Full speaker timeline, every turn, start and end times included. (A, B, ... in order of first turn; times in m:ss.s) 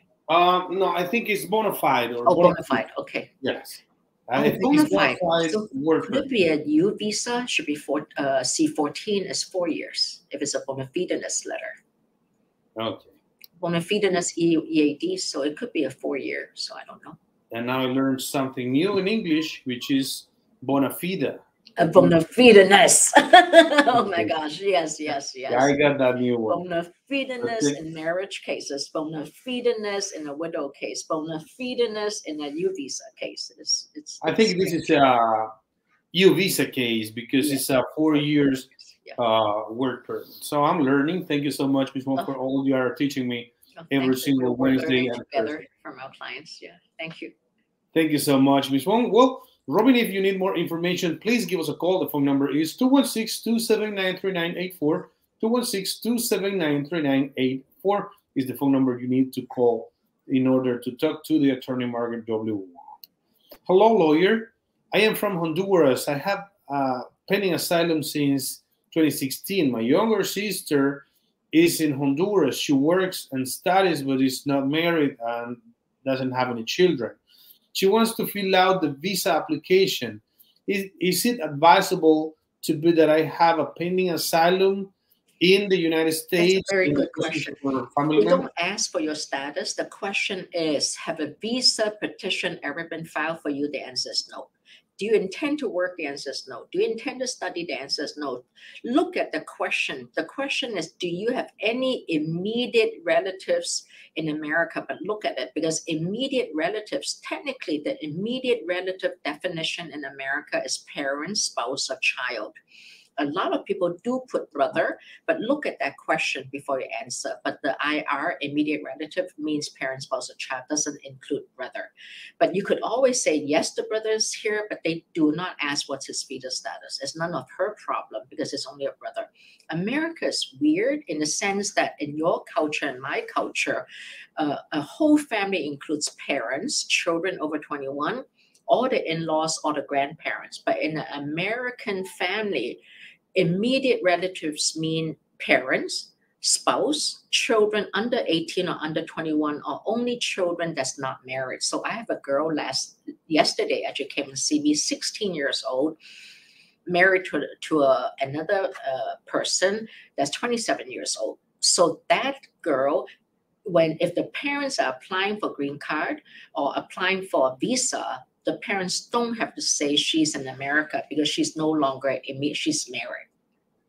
0:00.3-0:02.8 A
0:02.3-0:03.3 B
0:03.4-0:06.3 A
0:04.4-0:11.8 B
0:12.8-0:13.1 A
0:13.6-0:17.2 B
0:17.5-0:21.4 A
0:21.8-0:25.8 B
0:23.9-0:24.3 A
0:25.5-0:26.6 A
0:26.5-0:34.9 B
0:27.4-0:27.8 A
0:34.2-0:35.5 A
0:36.1-0:45.6 A
0:37.4-0:37.6 B
0:38.9-0:39.2 B
0:43.8-0:47.3 B
0:47.9-1:03.0 A
1:03.7-1:17.2 A
1:17.7-1:28.4 A
1:26.4-1:27.6 B
1:28.2-1:52.6 B
1:53.2-2:13.9 B
2:14.4-2:22.8 B
2:23.4-2:36.0 B
2:36.9-2:43.1 B
2:43.7-2:53.3 B